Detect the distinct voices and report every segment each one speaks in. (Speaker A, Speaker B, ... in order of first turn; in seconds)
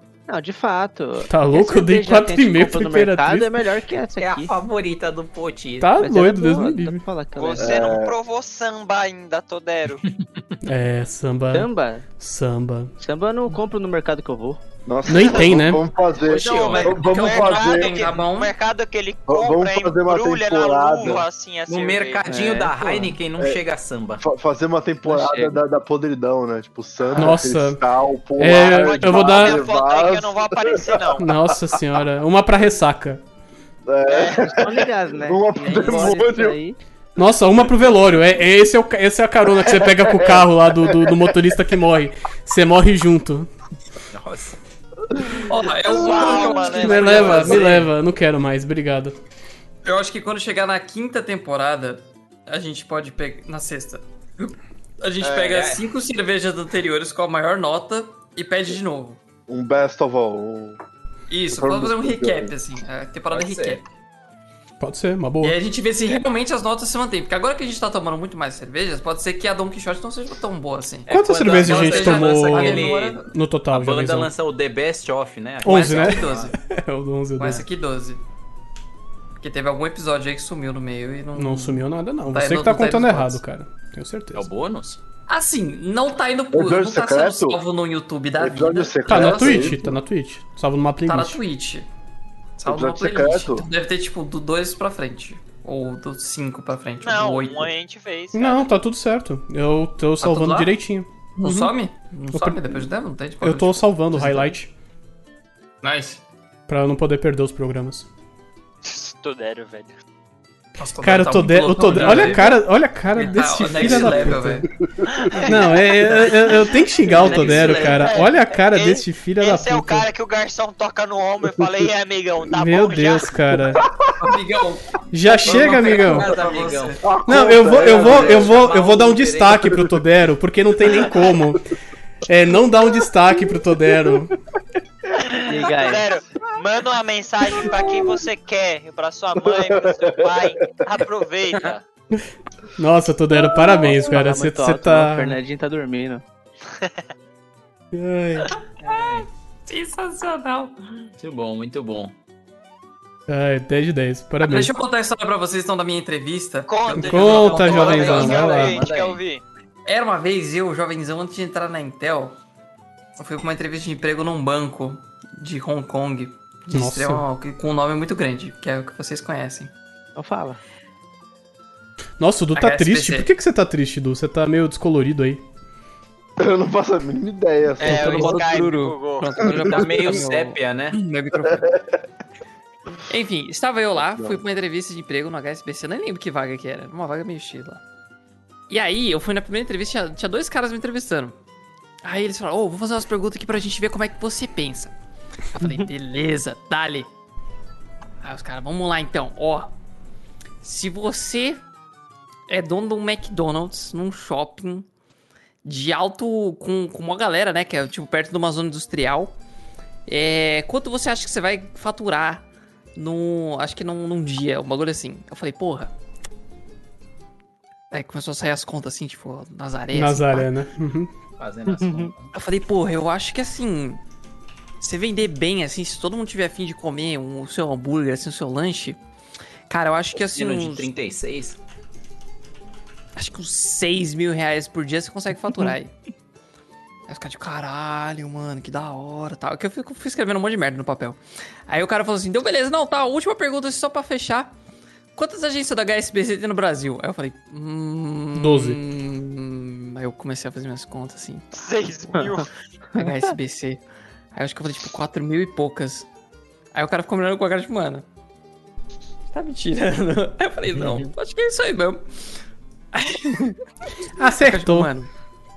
Speaker A: 0.3-4.6, 6.0-8.0, 11.5-12.0, 13.0-14.6, 22.2-23.1, 25.0-25.6, 34.6-36.8, 135.4-136.1, 144.0-146.2, 170.2-170.6, 221.7-222.1
Speaker B: 1.3-3.6, 5.8-7.0, 10.6-12.9, 15.1-15.8, 27.1-27.8, 28.4-29.6, 31.2-33.2, 37.1-43.5, 46.7-49.1, 64.8-65.6, 71.1-74.3, 75.6-77.6, 81.3-84.5, 89.0-91.4, 98.3-101.7, 102.3-102.9, 103.4-104.7, 106.7-108.1, 111.0-114.7, 115.5-120.1, 122.5-123.8, 125.1-126.3, 127.3-131.7, 132.2-134.3, 142.8-145.4, 147.9-148.5, 153.3-154.7, 157.0-158.8, 166.7-167.2, 172.2-175.4, 219.9-221.1, 248.3-248.8, 264.2-264.9
Speaker C: 4.2-6.0, 10.0-10.5, 16.1-17.0, 21.7-24.2, 44.1-44.6, 55.2-55.9, 63.3-63.8, 71.1-76.5, 84.3-85.0, 125.4-129.8, 148.8-149.2, 151.2-152.2, 157.8-159.2, 179.7-181.0, 221.4-222.3, 230.1-231.6
Speaker D: 7.3-10.0, 16.2-22.3, 28.4-31.3, 34.1-34.5, 45.8-47.7, 97.0-98.7, 108.8-109.9, 115.1-116.5, 117.5-123.7, 135.1-141.8, 146.7-147.0, 156.7-159.4, 177.8-179.5, 251.5-252.5
Speaker E: 7.5-8.1, 14.8-18.0, 19.3-21.2, 24.2-31.4, 33.9-36.6, 39.6-41.3, 45.2-45.5, 59.5-60.8, 61.5-62.5, 86.5-87.6, 88.4-90.0, 92.7-93.7, 114.8-115.5, 123.7-124.1, 127.0-128.6, 130.9-131.3, 137.6-138.2, 139.5-140.8, 143.5-143.8, 176.4-178.4, 179.6-179.8, 181.4-181.8, 184.0-184.4
Speaker F: 16.5-18.5, 35.7-36.1, 45.4-47.9, 49.8-59.2, 61.3-63.8, 65.4-73.3, 75.6-76.5, 77.4-78.2, 79.4-83.4, 85.3-89.8, 91.0-91.9, 92.6-97.7, 100.2-100.8, 101.4-104.5, 105.8-106.2, 110.8-112.6, 113.1-114.7, 116.1-118.2, 124.2-127.0, 148.8-150.8, 154.4-158.6, 159.8-162.4, 163.2-169.7, 172.5-173.3, 177.8-181.7, 183.1-187.8, 188.7-191.4, 192.0-194.9, 195.5-197.1, 198.2-199.7, 200.6-201.6, 202.5-204.8, 205.6-209.3, 210.1-212.4, 212.9-215.9, 217.9-220.5, 222.3-224.0, 224.8-229.0, 229.7-230.9, 233.2-235.9, 237.1-244.5, 245.1-251.7, 252.9-253.8, 254.3-256.1, 256.7-258.0, 259.3-262.0, 262.9-263.6, 264.3-265.1